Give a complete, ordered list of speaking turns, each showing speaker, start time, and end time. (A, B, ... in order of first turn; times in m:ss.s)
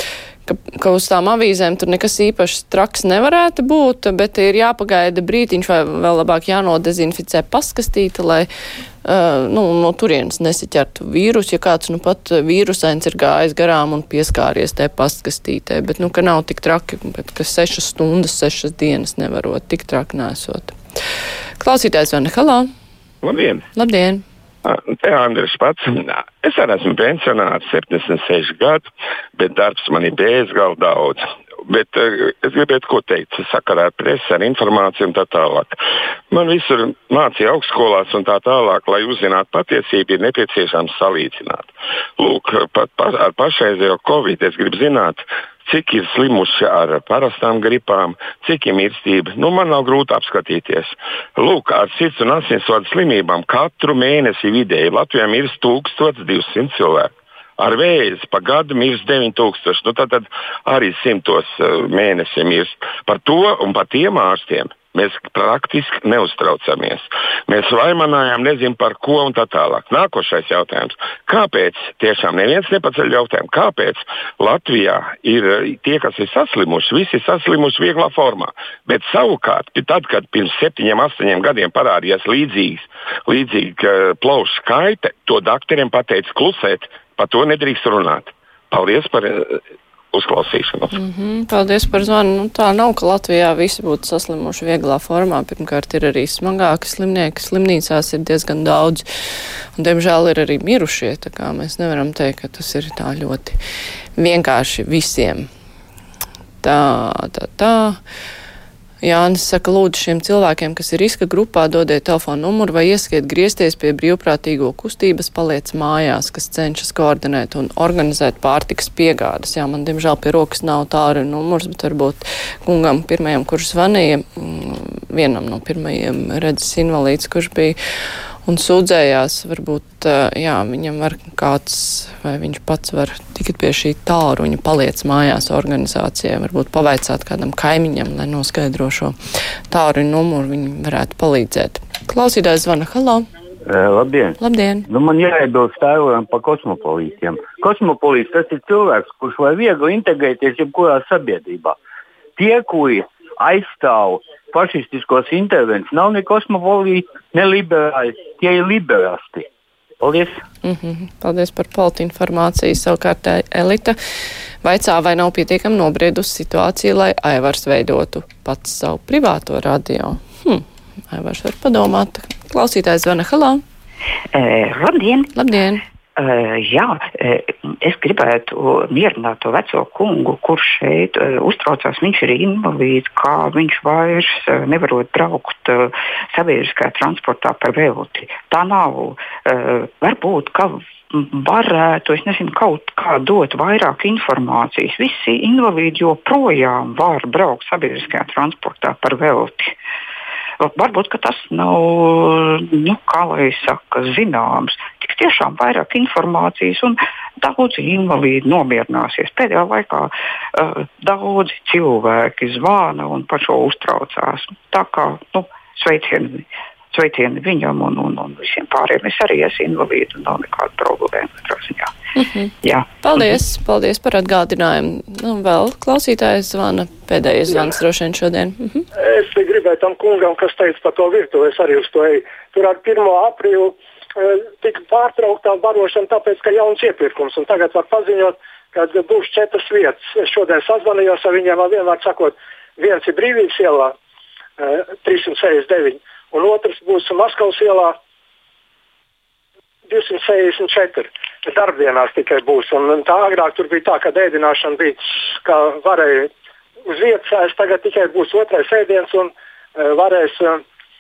0:00.5-0:08.5 A
0:09.0-0:20.8 A
0:21.6-0:22.7 A
0:23.2-0:23.6 B
0:23.8-0:24.2 A
0:24.6-0:28.8 B
0:29.4-0:35.8 B
0:36.3-1:29.6 B
1:30.1-1:31.0 B
1:30.9-1:39.0 A
1:39.8-1:43.6 A
1:44.2-1:45.5 A
1:46.6-1:48.0 A
1:49.0-2:07.8 A
2:08.5-2:19.2 A
2:19.7-2:23.2 A
2:23.7-2:24.4 C
2:24.4-2:24.8 A
2:24.9-2:31.8 C
2:32.4-2:39.5 C
2:40.0-2:40.4 C
2:40.6-2:44.0 A
2:44.6-2:53.6 A
2:54.3-2:55.3 D
2:55.4-2:55.8 A
2:56.2-3:19.8 D
3:20.6-3:41.9 D
3:42.2-3:48.8 A
3:49.0-4:03.9 E
4:04.6-4:08.0 E
4:09.9-4:16.3 E
4:16.9-4:20.6 E